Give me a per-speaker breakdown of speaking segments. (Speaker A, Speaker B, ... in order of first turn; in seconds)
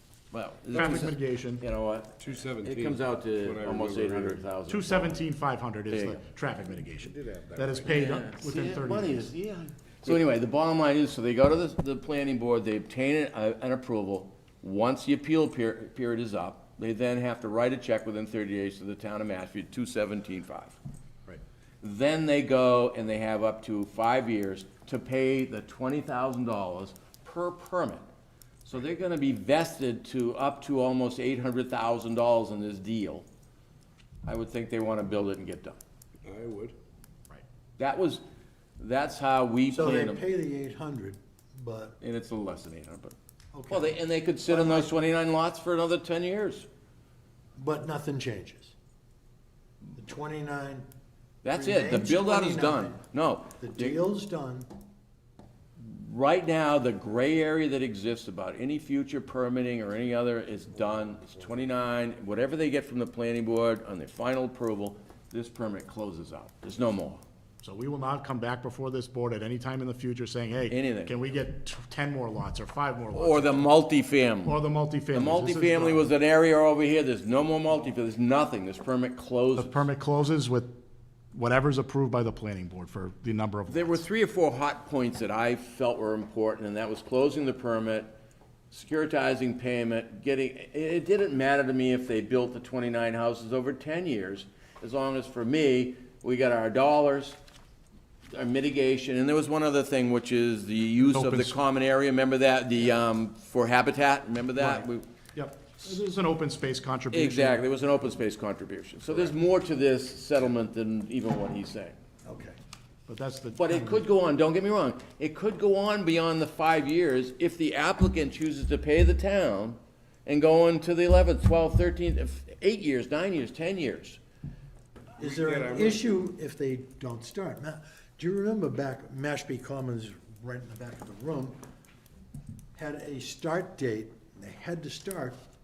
Speaker A: 0.3-5.2, 5.9-6.2, 7.8-20.7, 21.8-28.0, 28.6-33.2, 34.2-35.8, 37.8-38.2, 38.8-40.2, 42.0-43.1, 43.7-46.7, 51.4-54.0, 55.8-67.2, 70.7-71.1, 73.1-74.6, 75.1-79.8, 83.7-88.1, 88.7-97.4, 98.3-105.0, 107.1-112.0, 113.6-124.2
Speaker B: 0.7-1.6, 4.7-9.3, 67.6-73.7, 74.4-76.1, 79.6-80.7, 81.3-84.0, 101.0-101.5, 104.6-107.6, 113.1-114.0
Speaker C: 2.2-4.4, 6.8-7.9, 36.2-36.7, 125.2-126.0
Speaker D: 39.7-42.0, 43.5-44.9, 47.5-48.7, 50.0-50.9, 51.5-53.0, 53.6-54.7, 112.2-112.6, 125.2-131.6, 132.7-135.4